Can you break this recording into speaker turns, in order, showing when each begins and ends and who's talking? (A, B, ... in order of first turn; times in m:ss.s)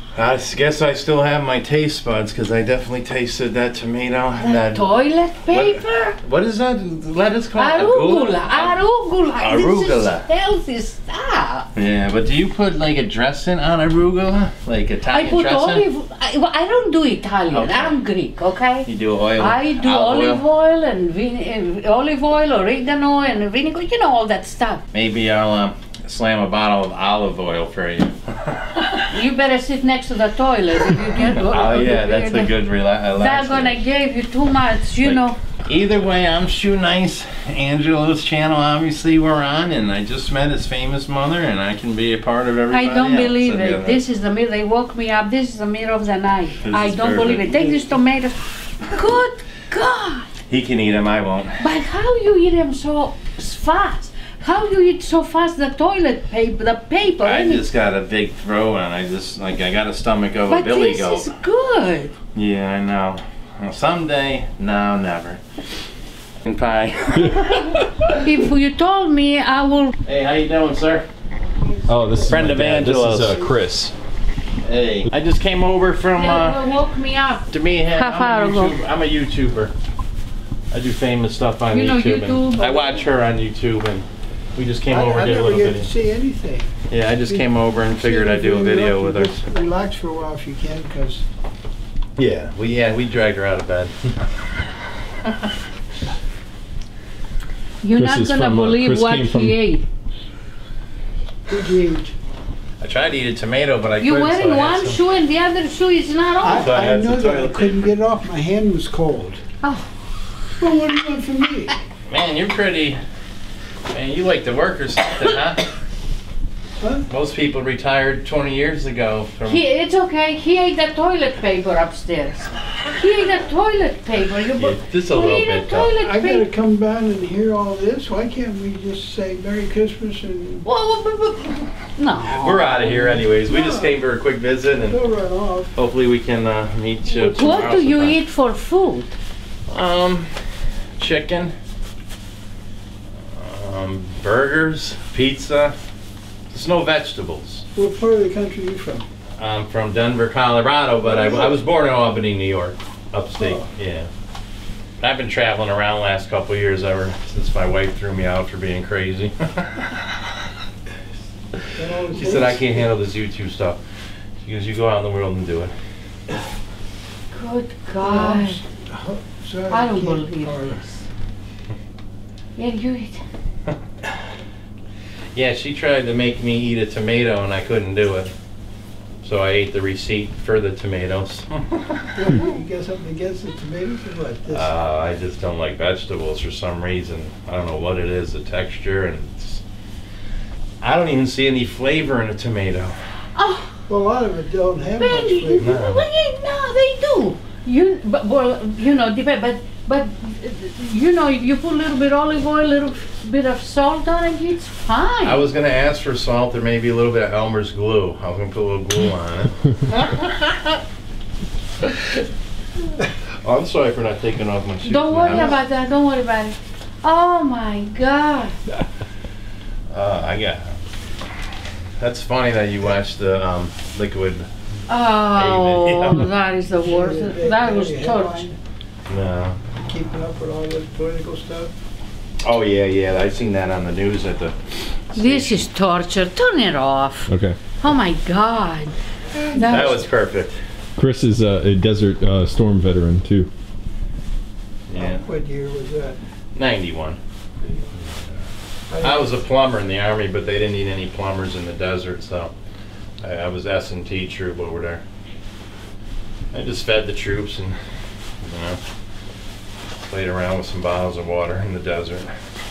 0:00.1-0:05.0 A
0:04.4-0:06.2 B
0:05.5-0:08.8 A
0:07.5-0:11.7 B
0:09.4-0:10.2 A
0:11.7-0:15.8 A
0:15.1-0:24.8 B
0:17.5-0:18.0 A
0:18.8-0:20.4 A
0:24.9-0:29.1 A
0:29.1-0:32.5 B
0:30.8-0:33.8 A
0:33.1-0:35.4 B
0:35.0-0:44.0 A
0:42.7-0:50.3 B
0:46.6-0:48.0 A
0:50.5-0:51.6 A
0:51.6-0:57.6 B
0:57.2-1:01.2 A
1:00.4-1:02.1 B
1:02.3-1:05.4 A
1:06.4-1:08.1 A
1:07.2-1:07.5 C
1:08.2-1:09.9 B
1:10.0-1:11.1 A
1:11.6-1:13.6 D
1:11.9-1:13.9 C
1:12.2-1:13.4 A
1:14.6-1:16.7 A
1:16.2-1:18.8 B
1:17.5-1:19.7 A
1:20.7-1:25.9 A
1:21.7-1:22.8 B
1:22.6-1:23.0 D
1:24.9-1:26.7 D
1:26.9-1:29.3 A
1:27.3-1:31.2 D
1:32.2-1:34.2 A
1:37.8-1:39.8 B
1:37.9-1:39.6 C
1:41.5-1:42.1 D
1:42.8-1:45.0 A
1:44.0-1:46.8 B
1:46.4-1:49.4 D
1:46.5-1:47.9 A
1:49.6-1:49.9 B
1:50.6-1:51.7 D
1:52.1-1:53.0 A
1:53.9-1:55.6 A
1:56.8-1:57.1 D
1:57.1-1:59.6 A
1:59.4-2:06.5 B
2:04.6-2:05.9 A
2:06.0-2:10.7 D
2:10.6-2:12.7 B
2:12.2-2:15.0 A
2:12.8-2:14.0 D
2:14.8-2:15.7 D
2:15.7-2:18.2 A
2:17.1-2:19.1 B
2:19.7-2:20.3 A
2:21.0-2:21.5 A
2:23.3-2:25.7 A
2:26.5-2:27.6 A
2:27.7-2:29.1 D
2:29.4-2:34.1 A
2:31.0-2:31.6 D
2:33.4-2:33.6 D
2:35.0-2:40.0 A
2:41.7-2:42.9 D
2:42.1-2:43.8 A
2:44.4-2:45.7 A
2:47.3-2:48.6 B
2:48.0-2:50.8 D
2:49.7-2:51.1 B
2:52.5-2:53.2 B
2:55.3-2:58.3 A
2:59.2-3:02.3 A
3:02.1-3:04.7 D
3:04.5-3:09.6 A
3:10.8-3:13.0 A
3:13.4-3:13.7 B
3:13.9-3:15.8 D
3:15.0-3:25.4 B
3:15.6-3:16.0 A
3:25.2-3:30.8 A
3:31.8-3:32.2 A
3:33.4-3:35.6 A
3:34.8-3:38.5 B
3:39.9-3:40.8 A
3:42.0-3:44.5 A
3:44.9-3:48.5 B
3:45.3-3:46.3 A
3:46.8-3:48.6 D
3:49.1-3:49.6 A
3:49.8-3:51.7 D
3:52.4-3:55.7 A
3:55.1-3:58.9 B
3:57.3-3:57.6 C
3:59.5-4:00.0 B
3:59.6-4:00.6 A
3:59.7-3:59.9 D
4:01.0-4:03.5 C
4:04.9-4:05.2 A
4:04.9-4:06.2 D
4:06.6-4:07.2 A
4:07.6-4:07.9 D
4:07.9-4:08.3 A
4:08.9-4:09.4 D
4:09.0-4:12.5 A
4:13.2-4:15.0 A
4:16.5-4:17.8 A
4:18.4-4:18.8 A
4:20.0-4:22.3 A